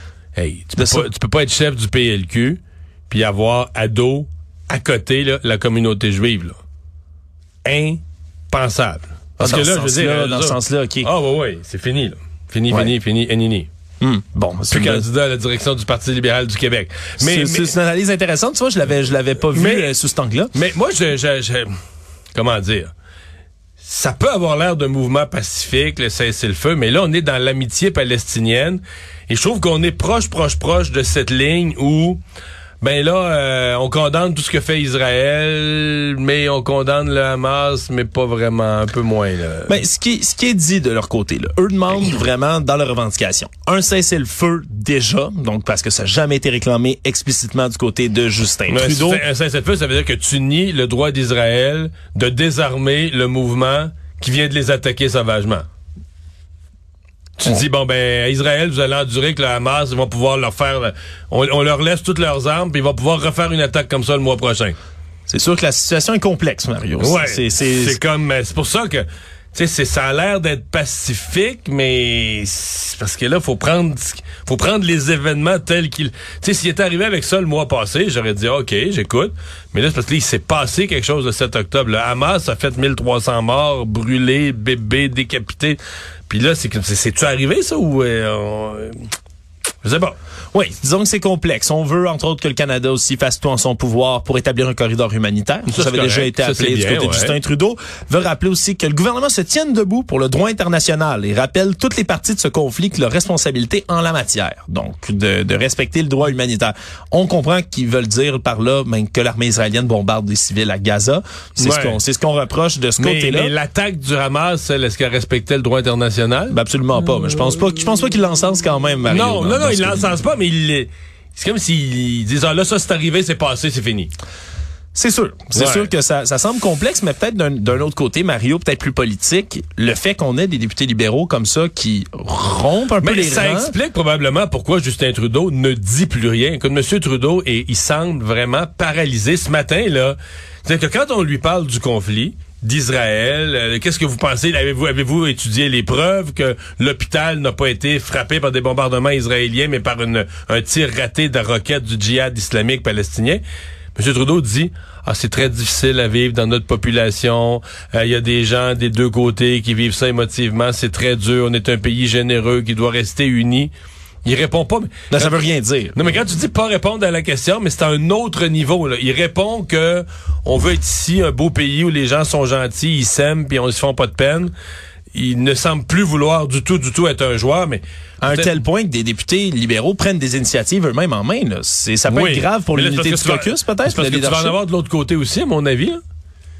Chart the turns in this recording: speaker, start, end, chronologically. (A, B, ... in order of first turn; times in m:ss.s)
0:00.4-0:06.6 A
0:00.8-0:01.1 B
0:07.6-0:13.7 A
0:09.4-0:11.1 B
0:14.0-0:15.0 B
0:14.7-0:17.7 A
0:17.2-0:20.5 B
0:19.5-0:19.9 A
0:20.5-0:21.8 A
0:22.3-0:22.9 A
0:23.8-0:32.2 A
0:32.8-0:39.7 A
0:39.7-0:49.2 B
0:48.7-0:55.6 A
0:57.4-1:04.8 A
1:05.3-1:08.0 B
1:07.0-1:29.0 A
1:29.8-1:30.2 A
1:30.5-1:53.5 B
1:35.7-1:37.3 A
1:51.6-1:52.0 A
1:53.0-1:56.5 A
1:56.5-2:00.1 B
1:59.1-2:04.1 A
2:04.9-2:13.7 B
2:05.5-2:05.9 A
2:13.0-2:33.4 A
2:34.0-2:43.7 A
2:44.2-2:45.4 A
2:45.1-2:46.0 B
2:45.9-2:54.5 A
2:55.1-2:58.5 A
2:58.2-3:04.6 B
3:02.1-3:06.0 A